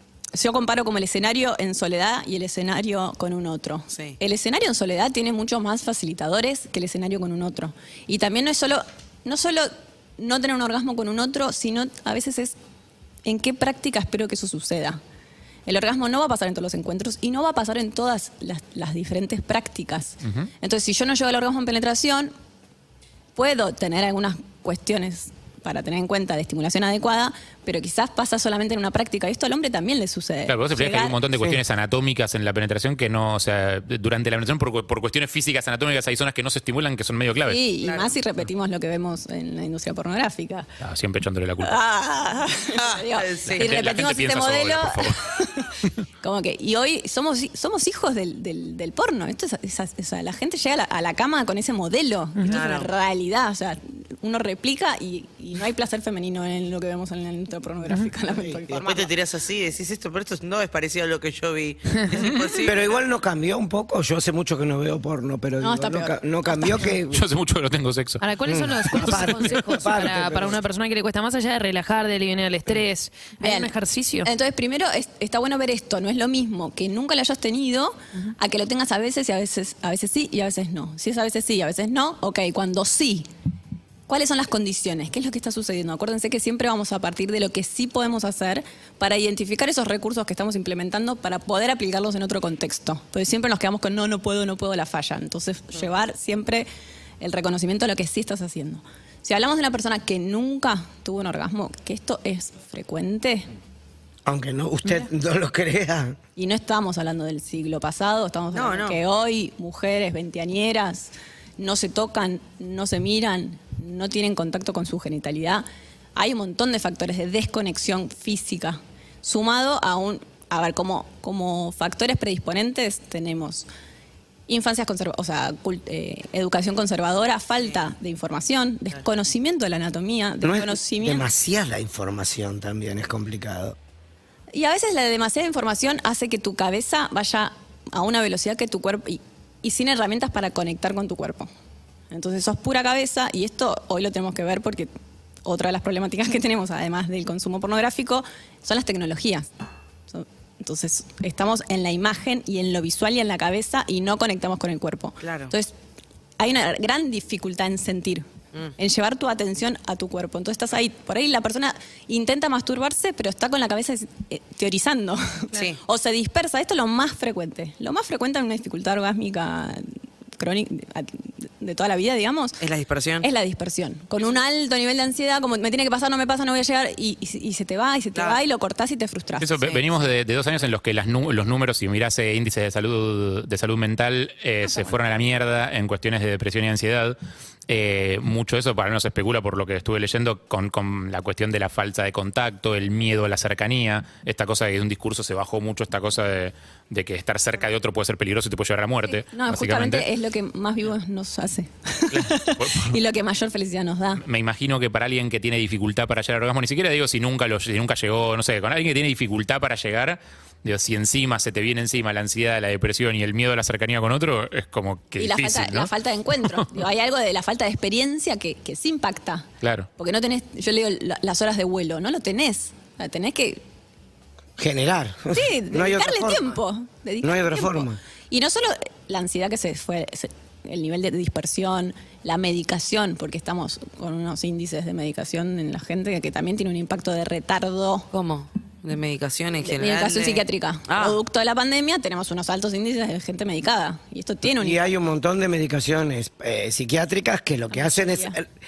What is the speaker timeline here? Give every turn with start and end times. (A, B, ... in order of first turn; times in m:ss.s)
0:00.3-0:12.6 A
0:03.9-0:04.2 B
0:13.2-0:15.0 A
0:15.6-0:22.3 A
0:20.2-0:20.5 C
0:23.4-0:31.2 A
0:30.5-0:37.6 C
0:37.5-0:40.7 A
0:37.8-0:38.1 B
0:40.8-0:41.8 C
0:41.6-0:59.1 A
0:42.7-0:43.7 B
0:43.5-0:45.4 C
0:52.4-0:52.9 B
0:58.3-0:59.1 D
0:58.8-1:03.0 B
1:02.6-1:07.2 D
1:05.6-1:06.9 A
1:07.1-1:08.2 C
1:08.2-1:14.3 E
1:08.5-1:10.6 D
1:09.0-1:09.7 C
1:13.4-1:23.3 A
1:24.1-1:36.7 A
1:37.2-1:43.5 A
1:44.2-1:46.2 D
1:46.4-2:03.7 A
1:48.5-1:49.0 B
2:04.5-2:11.2 A
2:10.4-2:13.8 D
2:14.5-2:21.5 A
2:22.1-2:24.9 A
2:25.4-2:29.5 A
2:30.1-2:35.7 A
2:35.2-2:35.5 B
2:36.4-2:38.2 A
2:38.8-2:52.6 A
2:45.5-2:45.8 B
2:52.6-2:53.3 B
2:53.2-2:59.6 A
2:59.4-3:07.2 C
3:07.7-3:20.1 C
3:19.1-3:24.2 A
3:22.1-3:23.0 C
3:24.2-3:36.8 C
3:35.2-3:39.4 A
3:39.6-3:39.9 C
3:40.0-3:43.6 A
3:44.6-3:46.6 D
3:45.3-3:58.1 A
3:47.2-3:48.0 D
3:58.1-4:01.2 B
3:59.6-4:04.8 A
4:04.5-4:08.5 D
4:07.7-4:08.4 A